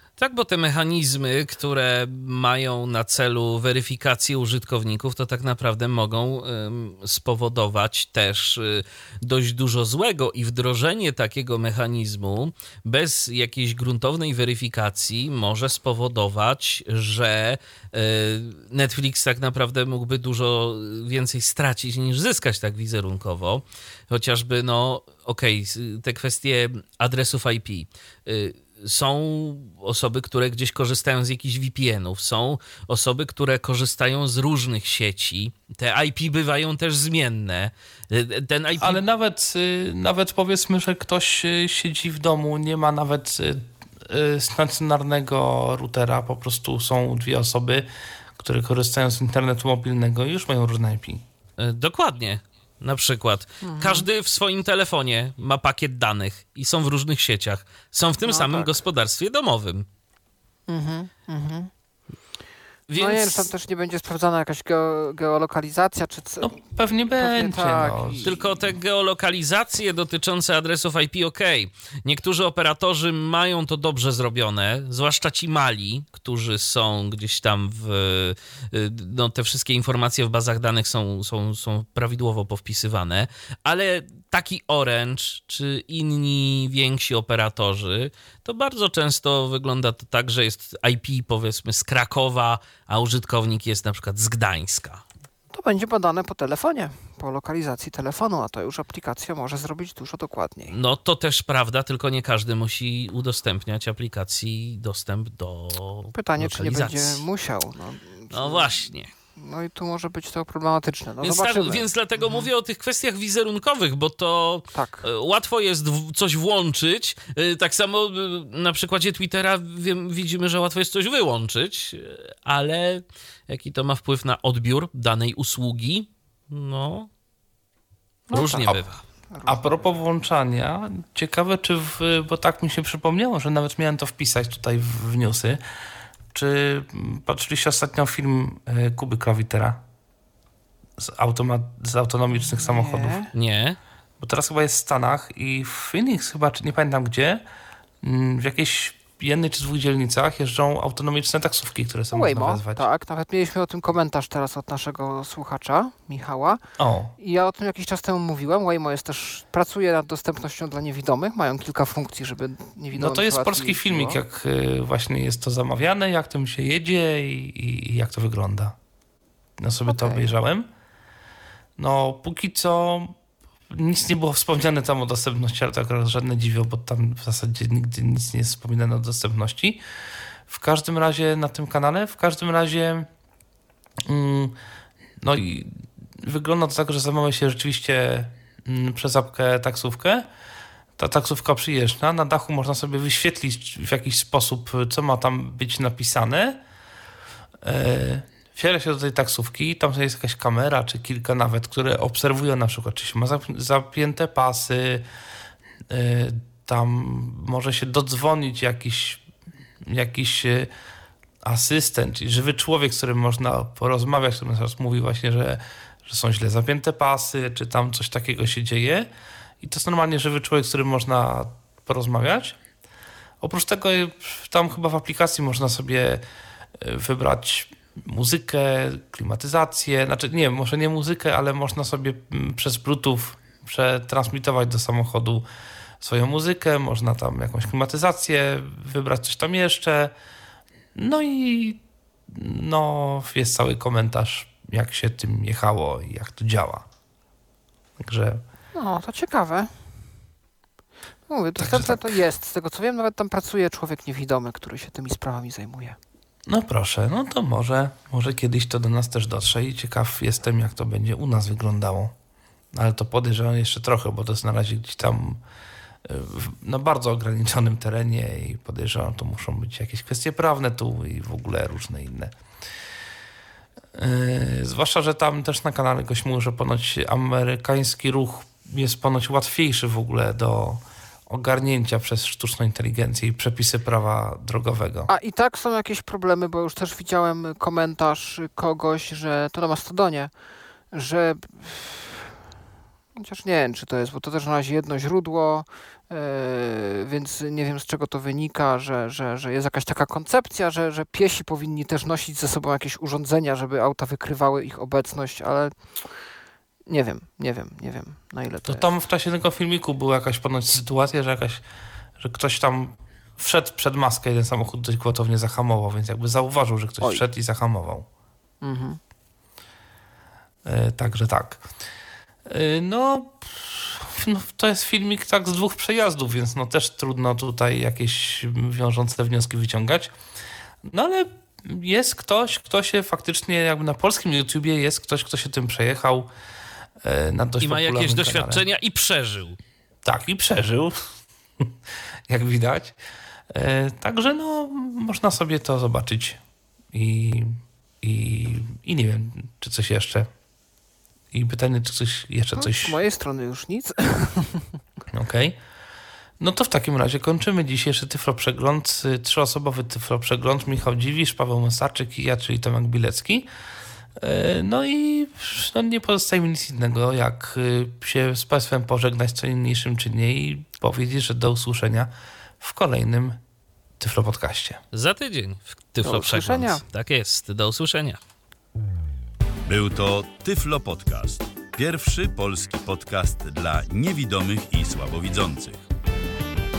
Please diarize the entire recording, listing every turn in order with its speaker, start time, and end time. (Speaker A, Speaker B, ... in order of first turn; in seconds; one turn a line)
Speaker A: 0.2-39.0
Speaker B: 38.8-51.2
Speaker A: 51.6-59.9
Speaker C: 53.6-54.1
Speaker C: 58.2-58.8
Speaker C: 60.7-61.7
Speaker A: 62.9-63.5
Speaker C: 63.0-66.6
Speaker B: 66.4-68.4
Speaker C: 67.2-68.3
Speaker A: 68.2-95.0
Speaker C: 95.5-100.7
Speaker A: 100.7-107.2
Speaker C: 106.1-108.8
Speaker A: 108.3-109.1
Speaker C: 109.4-112.5
Speaker A: 111.2-127.1
Speaker C: 114.7-115.0
Speaker C: 128.3-128.8
Speaker A: 128.3-129.0
Speaker C: 129.3-130.0
Speaker B: 129.4-135.6
Speaker B: 136.3-139.8
Speaker B: 141.0-143.2
Speaker C: 142.3-143.3
Speaker A: 143.3-143.8
Speaker B: 144.2-147.4
Speaker B: 148.0-152.9
Speaker C: 152.1-156.6
Speaker B: 156.8-157.2
Speaker C: 157.2-164.2
Speaker B: 162.9-168.8
Speaker B: 169.6-170.7
Speaker C: 169.9-170.3
Speaker B: 171.8-173.2
Speaker B: 173.7-179.8
Speaker B: 180.5-183.1
Speaker B: 184.1-184.6
Speaker B: 185.2-190.3
Speaker B: 191.0-196.6
Speaker B: 197.6-205.1
Speaker B: 205.9-209.2
Speaker B: 209.8-210.7
Speaker B: 211.4-219.1
Speaker B: 219.6-222.6
Speaker B: 223.4-226.2
Speaker B: 226.8-235.4
Speaker B: 236.0-240.1
Speaker B: 240.9-246.9
Speaker B: 248.0-248.4
Speaker C: 248.7-249.7
Speaker C: 251.3-256.0
Speaker B: 251.6-252.2
Speaker B: 256.5-262.1
Speaker B: 262.7-265.4
Speaker B: 266.1-272.3
Speaker B: 273.9-285.1
Speaker C: 285.1-290.3
Speaker C: 290.9-292.3
Speaker C: 293.2-305.7
Speaker C: 306.9-308.9
Speaker B: 308.7-311.6
Speaker B: 312.2-318.1
Speaker C: 318.6-319.0
Speaker B: 320.6-321.6
Speaker B: 322.4-330.1
Speaker B: 330.9-336.3
Speaker B: 337.0-338.6
Speaker A: 337.6-339.6
Speaker B: 340.1-341.7
Speaker B: 342.3-342.9
Speaker B: 343.5-346.4
Speaker B: 346.9-350.3
Speaker B: 351.3-353.0
Speaker C: 352.6-354.7
Speaker B: 355.1-355.6
Speaker B: 356.4-363.5
Speaker B: 364.2-372.1
Speaker B: 372.6-373.4
Speaker B: 374.0-374.8
Speaker A: 374.9-378.2
Speaker C: 376.0-376.8
Speaker D: 379.7-385.8